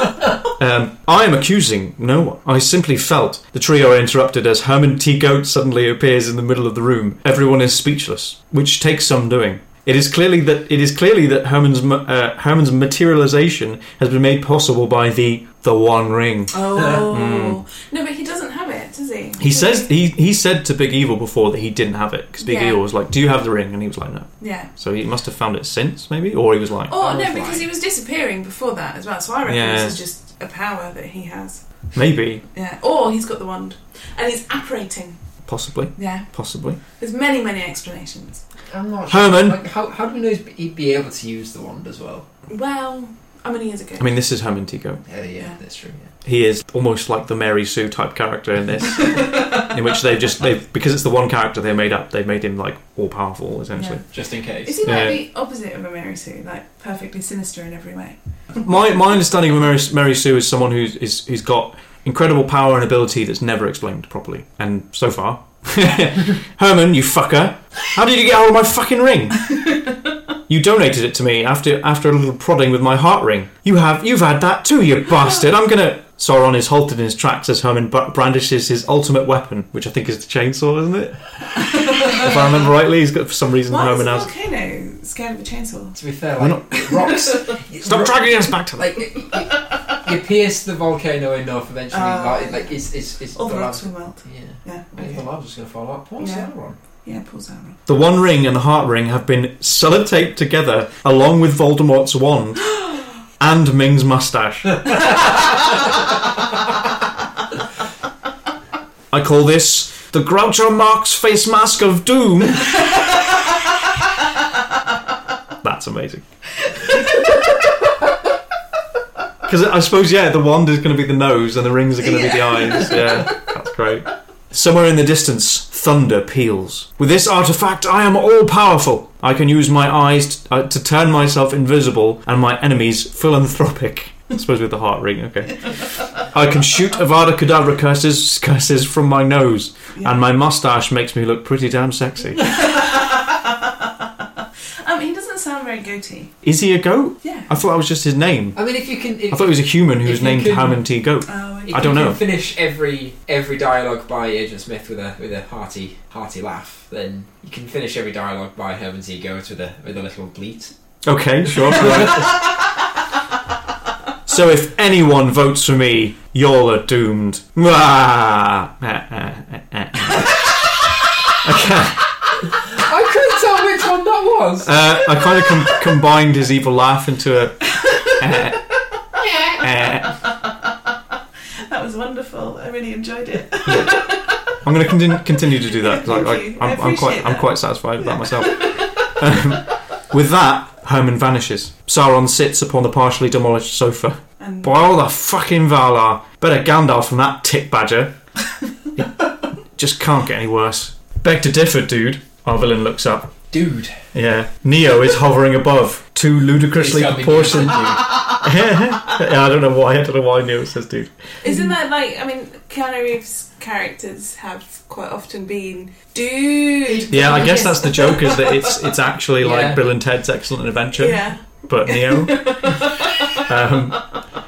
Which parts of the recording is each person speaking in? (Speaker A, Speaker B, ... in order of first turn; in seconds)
Speaker A: 0.4-17.6, 19.4-27.0, 29.4-30.0, 31.9-32.4, 35.5-36.8, 39.1-39.6, 44.0-45.0, 46.2-54.0, 54.8-55.2, 58.6-69.5, 70.5-84.3, 86.4-87.2, 87.8-89.1, 97.9-102.8, 103.4-105.0, 109.1-113.0, 115.6-116.2, 119.5-142.7, 146.4-148.6, 149.3-152.2, 161.0-162.4, 164.3-172.1, 174.6-178.6, 179.6-180.2, 183.7-198.2, 198.9-203.4, 204.1-211.7, 217.1-224.1
Speaker B: 16.5-19.9, 22.4-22.8, 24.4-24.7, 26.9-31.6, 32.5-35.2, 35.9-36.3, 36.9-38.4, 42.5-44.1, 49.0-49.7, 53.7-54.0, 54.6-58.2, 81.5-82.3, 83.7-86.0, 86.7-87.6, 89.1-90.0, 91.9-92.8, 93.3-95.0, 96.2-96.5, 97.0-97.8, 122.2-123.1, 142.4-144.1, 144.8-146.3, 147.2-147.5, 151.2-152.2, 177.8-178.1, 181.7-184.6, 185.5-189.2, 194.4-194.7, 211.4-218.8, 220.9-223.4
Speaker C: 16.8-17.0, 27.0-27.7, 38.7-42.3, 45.1-46.1, 54.1-54.9, 86.0-96.8, 148.5-150.8, 151.7-160.7, 161.6-162.3, 172.7-174.8, 203.5-204.0, 206.8-208.3, 216.8-217.6, 219.4-219.8